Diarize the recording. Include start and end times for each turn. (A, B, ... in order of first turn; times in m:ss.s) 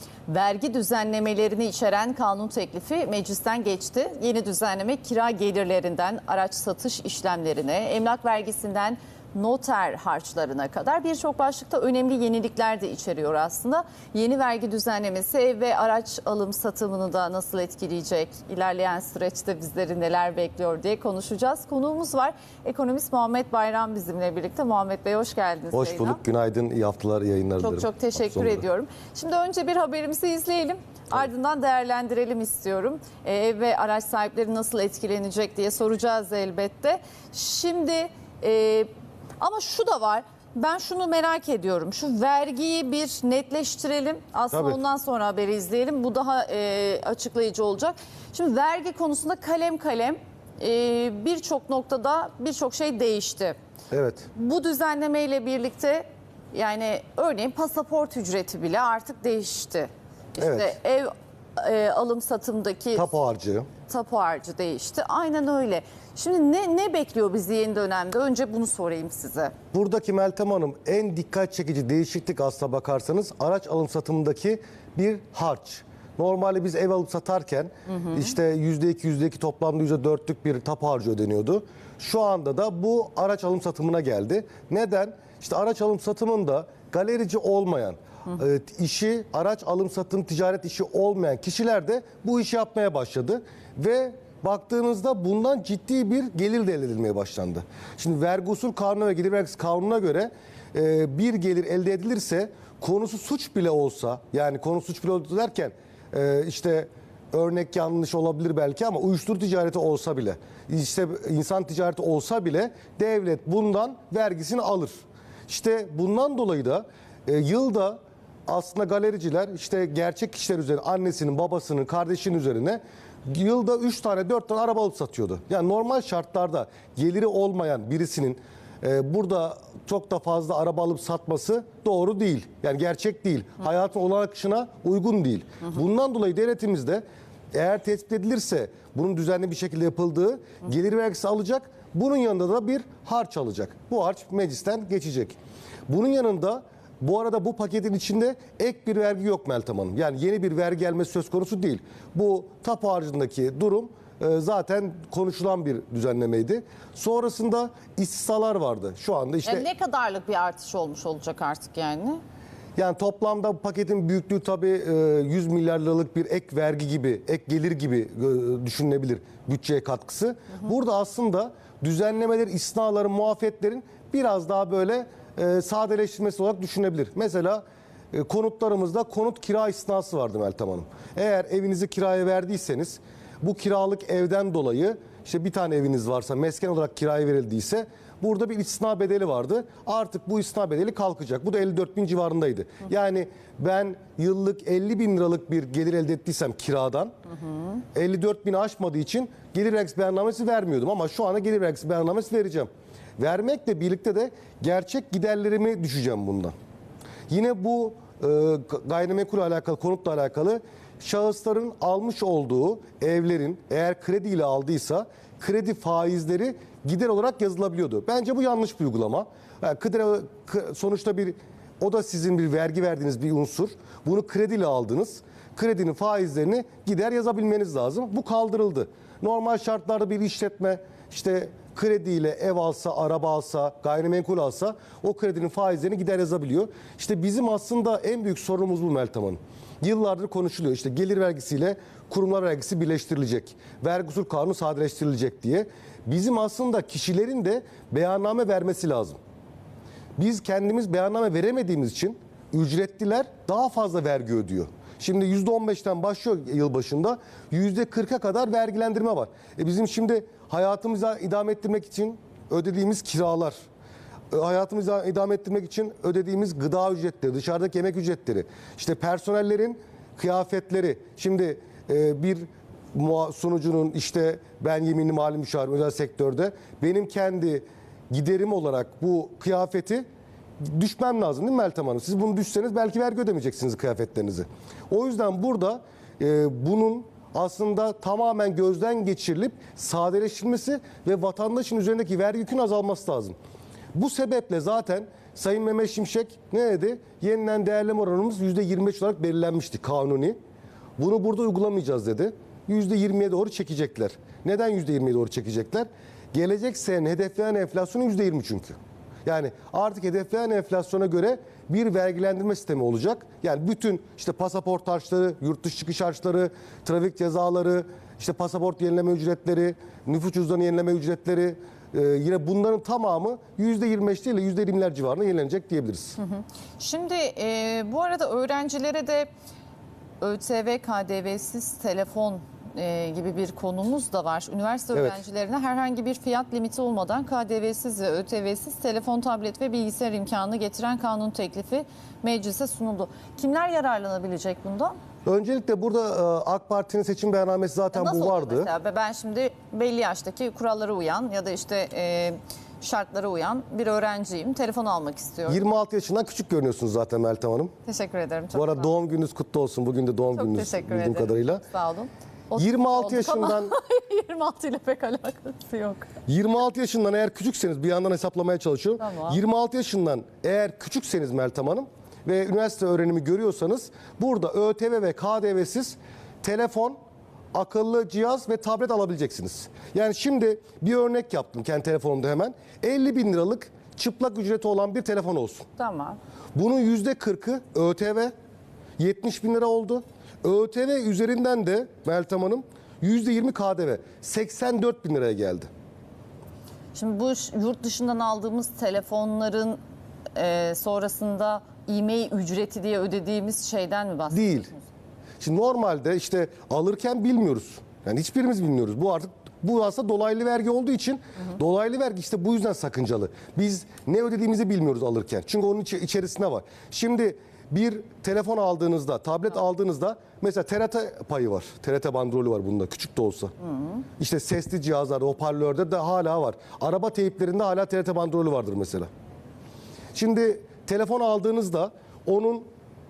0:00.3-0:26.2 A
0:25.7-0:28.6 B
0:27.6-0:38.9 A
0:39.4-0:53.6 A
0:44.5-0:44.8 B
0:53.9-0:54.3 B
0:54.4-1:03.1 A
1:00.4-1:00.8 B
1:03.0-1:03.7 B
1:03.9-1:09.5 A
1:09.7-1:55.0 B
1:55.5-2:25.4 B
2:25.9-2:39.7 B
2:39.5-2:42.2 A
2:42.8-3:17.1 B
3:17.9-3:26.5 B
3:27.3-4:09.2 B
4:10.2-4:23.6 B
4:24.3-4:40.1 B
4:40.6-4:53.4 B
4:53.9-5:00.4 B
5:01.0-5:26.2 B
5:26.2-5:29.3 A
5:30.2-5:45.0 A
5:34.9-5:35.2 B
5:45.3-5:48.7 B
5:47.9-5:55.6 A
5:55.5-5:57.7 B
5:57.9-5:58.9 A
5:58.5-6:01.6 B
6:00.3-6:06.1 A
6:02.6-6:03.7 B
6:06.3-6:17.0 B
6:09.0-6:09.4 A
6:17.5-6:25.7 B
6:25.8-6:26.2 A
6:26.5-6:28.3 B
6:29.0-6:35.7 B
6:37.0-6:39.8 A
6:40.4-6:44.8 A
6:44.3-6:44.7 B
6:45.4-7:03.5 B
7:04.2-7:09.1 B
7:10.1-7:12.7 B